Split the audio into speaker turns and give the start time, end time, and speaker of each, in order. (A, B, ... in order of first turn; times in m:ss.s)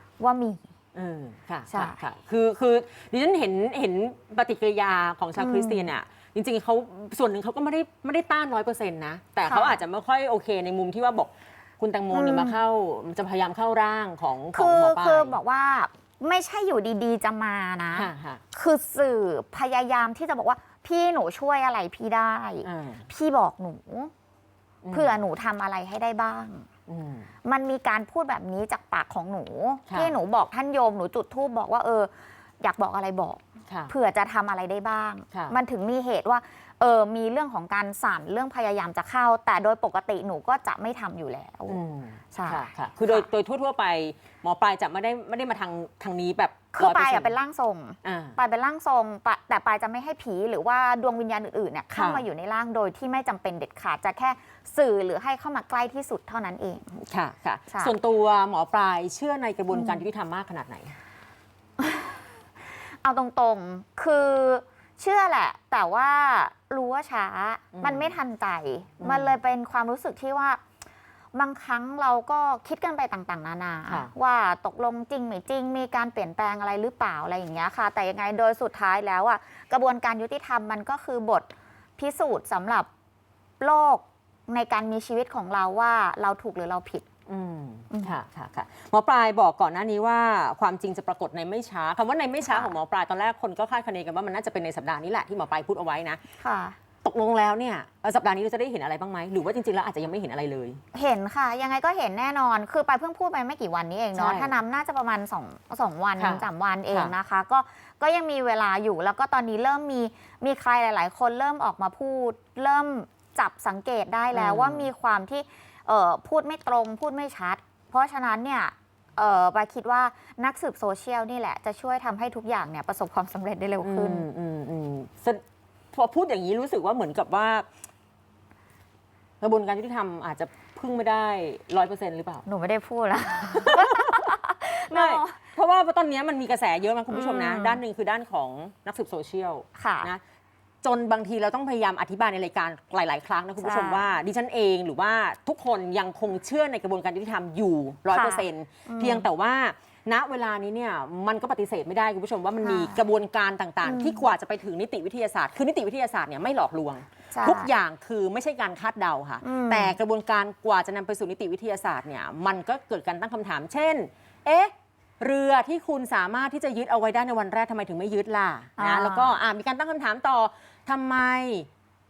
0:00.2-0:00.7 A
0:00.9-0:15.4 B
0:01.7-0:02.1 A
0:05.4-0:05.9 A
0:09.4-0:09.8 A
0:12.1-0:12.6 A
0:14.5-0:24.1 A
0:17.9-0:18.4 B
0:22.6-0:23.1 B
0:24.8-0:25.2 B
0:24.9-0:26.6 A
0:26.9-0:27.3 B
0:27.4-0:41.8 A
0:29.9-0:30.1 B
0:33.7-0:33.9 B
0:35.3-0:35.6 B
0:41.7-0:47.3 B
0:42.3-0:43.3 A
0:46.7-0:57.0 A
0:48.0-0:48.4 B
0:51.9-0:52.2 B
0:57.1-1:01.0 B
0:57.7-0:57.9 A
0:59.7-1:00.0 A
1:01.8-1:02.2 A
1:03.0-1:10.6 A
1:07.7-1:08.1 B
1:09.0-1:09.4 B
1:11.3-1:22.9 A
1:23.6-1:27.1 A
1:27.3-1:36.2 B
1:27.9-1:28.2 A
1:32.4-1:32.7 A
1:36.4-1:36.8 A
1:37.0-1:40.8 B
1:40.9-2:04.3 A
1:44.1-1:44.5 B
1:46.2-1:47.1 B
1:54.3-1:54.9 B
2:03.8-2:07.7 B
2:09.4-2:12.4 B
2:12.4-2:15.4 A
2:13.5-2:14.4 B
2:14.9-2:20.2 B
2:17.1-2:17.8 A
2:19.8-2:20.1 A
2:20.8-2:51.7 B
2:23.6-2:24.1 A
2:28.1-2:29.3 A
2:32.6-2:33.0 A
2:33.8-2:34.3 A
2:37.3-2:37.7 A
2:39.4-2:40.0 A
2:48.8-2:49.3 A